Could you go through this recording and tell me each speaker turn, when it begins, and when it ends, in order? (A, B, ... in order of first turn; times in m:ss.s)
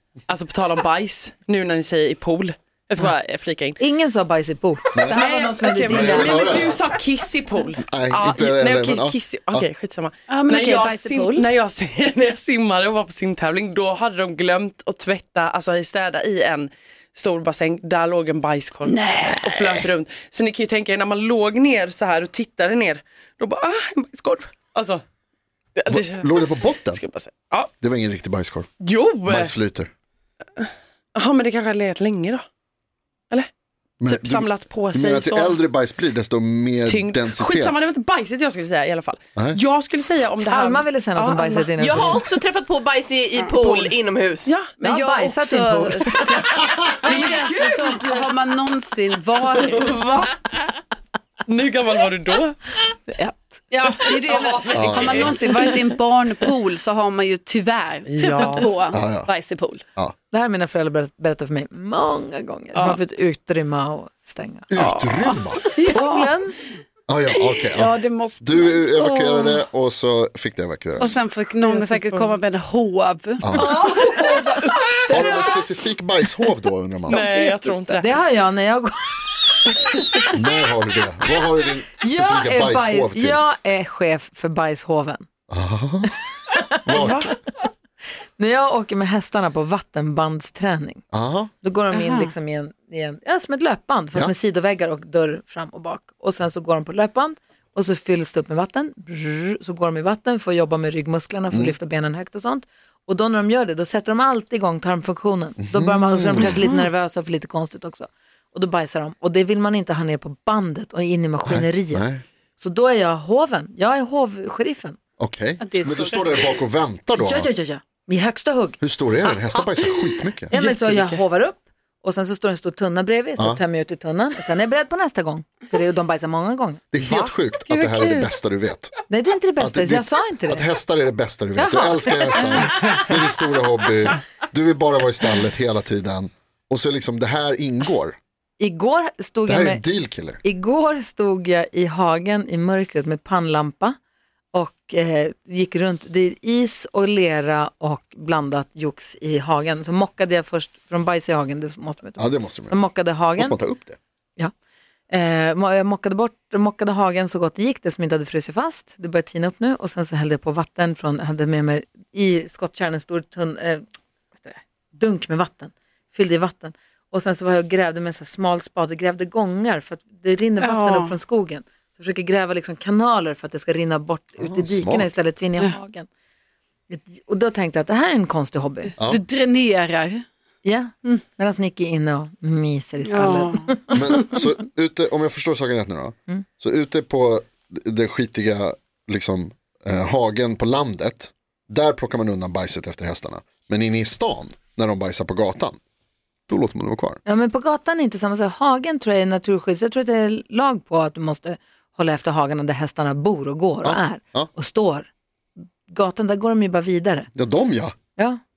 0:00.3-0:03.8 A
0:03.8-0:06.6 B
0:04.9-0:05.2 C
0:05.1-0:25.0 A
0:05.9-0:06.7 C
0:07.9-0:09.7 C
0:10.3-0:11.5 D
0:18.8-0:19.8 D
0:25.8-0:27.7 A
0:25.9-0:27.0 C
0:27.8-0:28.7 C
0:28.8-0:29.5 A
0:29.3-0:29.9 C
0:30.6-0:32.4 A
0:34.0-0:37.8 C
0:34.1-0:35.6 A
0:36.9-0:41.6 A
0:40.4-0:42.2 B
0:41.6-0:44.5 E
0:44.4-0:44.7 A
0:44.8-0:49.9 D
0:44.8-0:46.3 B
0:47.0-0:48.3 A
0:49.5-0:50.6 A
0:51.5-0:52.6 A
0:53.7-0:59.8 D
0:53.9-0:55.9 A
0:54.7-0:55.4 C
0:58.1-0:58.7 A
0:58.9-0:59.3 C
1:00.3-1:04.7 B
1:04.7-1:05.6 C
1:04.8-1:06.3 D
1:05.9-1:06.5 B
1:07.1-1:11.2 C
1:07.3-1:09.3 D
1:09.0-1:09.4 A
1:11.0-1:15.5 D
1:13.4-1:13.7 C
1:13.6-1:15.2 A
1:15.1-1:17.3 C
1:17.1-1:18.0 A
1:17.9-1:20.3 B
1:20.3-1:23.4 C
1:22.0-1:25.2 B
1:25.5-1:26.1 C
1:26.5-1:27.3 B
1:26.8-1:27.3 C
1:26.9-1:27.3 A
1:28.4-1:31.0 B
1:31.1-1:31.5 C
1:31.6-1:52.0 B
1:31.9-1:32.3 D
1:45.6-1:46.6 C
1:51.4-1:52.2 C
1:52.6-1:55.0 B
1:55.2-1:57.5 C
1:55.6-1:56.5 D
1:57.2-1:58.8 B
1:58.8-2:00.5 C
2:00.5-2:06.8 B
2:00.5-2:01.2 A
2:06.9-2:08.9 C
2:07.7-2:08.3 D
2:09.1-2:10.6 B
2:09.6-2:18.2 C
2:11.6-2:12.7 B
2:18.6-2:19.8 B
2:19.5-2:20.4 C
2:20.4-2:24.0 B
2:24.5-2:33.6 B
2:32.2-2:32.8 C
2:33.3-2:34.0 C
2:35.1-2:43.8 B
2:44.4-2:56.1 B
2:50.6-2:51.2 D
2:54.4-2:55.1 C
2:56.9-2:58.9 B
2:59.0-3:00.2 D
3:00.6-3:04.0 B
3:03.0-3:04.2 D
3:03.9-3:15.8 C
3:16.5-3:17.2 C
3:17.2-3:25.1 B
3:23.8-3:24.5 C
3:25.9-3:27.3 B
3:27.3-3:28.0 C
3:28.2-3:28.4 B